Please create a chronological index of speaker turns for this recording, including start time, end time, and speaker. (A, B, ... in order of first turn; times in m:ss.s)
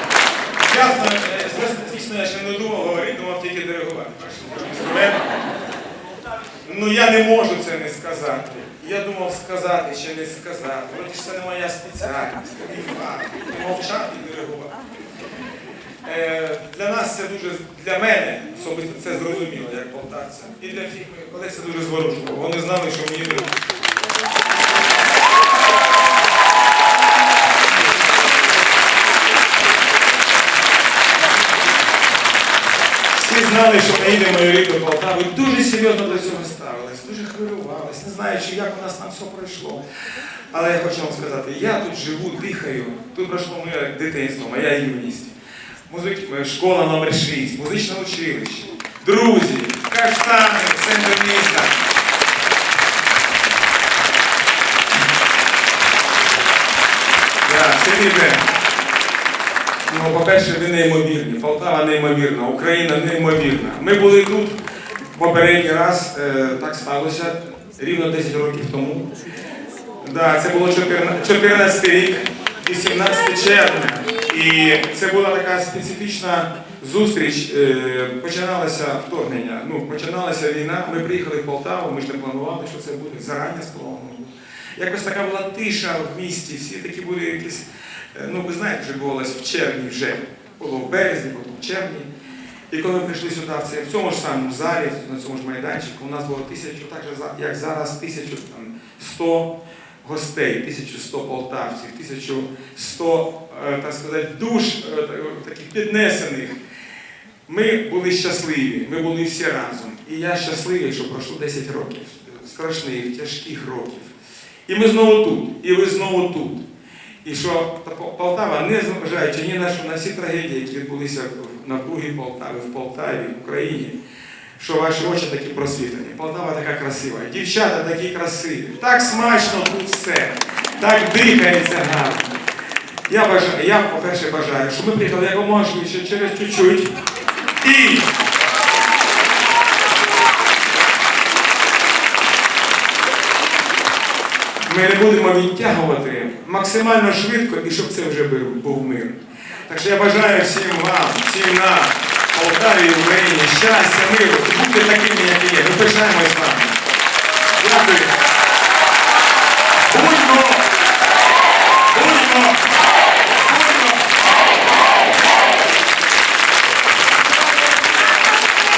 0:00.6-0:05.4 A
0:06.6-0:14.8 A
0:16.0-0:23.6 A
0:33.1-0:39.8 A
0:40.5-0:45.3 A
0:45.9-0:51.8 A
0:57.4-0:58.5 A
0:59.9-1:04.6 A
1:05.1-1:09.1 A
1:10.0-1:32.1 A
1:32.7-1:46.6 A
1:47.5-1:54.1 A
1:54.7-1:56.6 A
1:57.2-2:04.0 A
2:04.6-2:12.4 A
2:13.1-2:16.9 A
2:17.6-2:18.1 A
2:24.6-2:36.8 A
2:37.6-2:38.2 A
2:39.9-2:40.7 A
2:41.9-2:42.7 A
2:43.5-2:44.0 A